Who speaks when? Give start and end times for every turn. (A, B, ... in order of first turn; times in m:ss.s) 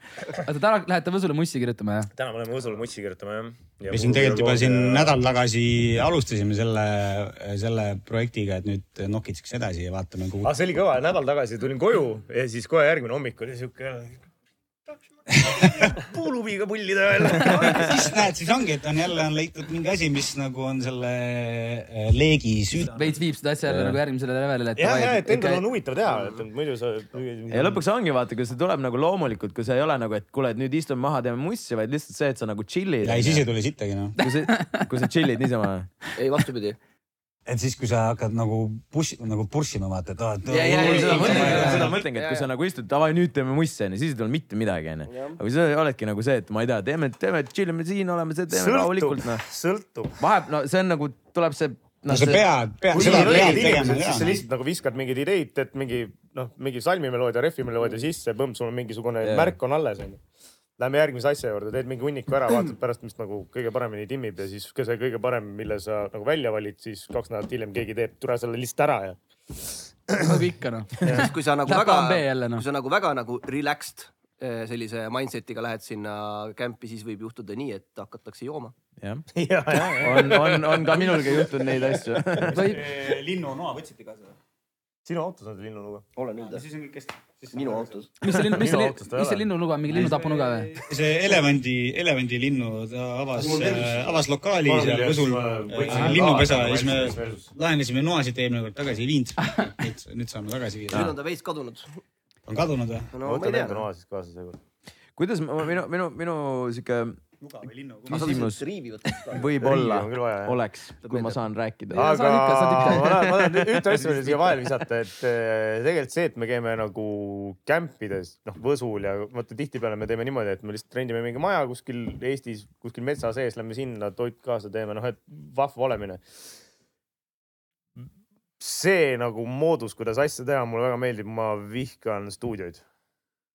0:00.3-0:02.1 A
0:02.1-0:05.2 B
0:03.9-0:10.5 C
0:10.4-0:14.2 B
0:15.4-0:15.9 C
0:15.4-0:18.1 B
0:17.3-0:23.2 C
0:22.9-0:25.6 A
0:23.7-0:24.0 D
0:24.8-0:27.8 B
0:26.1-0:26.4 E
0:27.5-0:33.4 D
0:33.0-0:34.2 C
0:34.2-0:35.9 D
0:34.2-0:34.8 A
0:36.1-0:36.8 E
0:37.4-0:42.0 C
0:40.5-0:42.5 E
0:40.6-0:49.4 D
0:40.8-0:41.9 A
0:45.0-0:45.4 E
0:48.5-0:50.2 B
0:50.2-0:52.4 D
0:52.1-0:54.4 C
0:52.9-1:00.2 B
0:53.0-0:53.8 E
0:53.1-0:53.5 D
0:59.2-0:59.6 D
1:00.8-1:10.3 B
1:10.2-1:12.6 A
1:11.0-1:11.3 B
1:11.0-1:18.7 E
1:19.0-1:22.7 D
1:19.3-1:21.8 B
1:22.4-1:24.4 C
1:22.5-1:22.8 A
1:22.7-1:23.2 B
1:25.0-1:26.0 B
1:26.2-1:26.6 E
1:26.4-1:28.0 C
1:27.5-1:28.1 E
1:28.2-1:30.7 A
1:28.5-1:30.1 B
1:30.7-1:41.1 C
1:33.4-1:34.2 E
1:34.6-1:37.4 B
1:39.4-1:39.7 A
1:40.9-1:42.0 E
1:42.5-1:43.1 C
1:43.1-1:43.8 E
1:43.2-1:44.6 B
1:45.2-1:47.2 D
1:47.4-1:48.5 C
1:48.1-1:48.6 D
1:48.1-1:49.7 E
1:49.2-1:52.1 D
1:49.6-1:50.6 B
1:51.0-1:51.4 E
1:51.9-1:53.3 A
1:51.9-2:06.2 B
1:53.0-1:53.5 D
2:08.6-2:12.8 B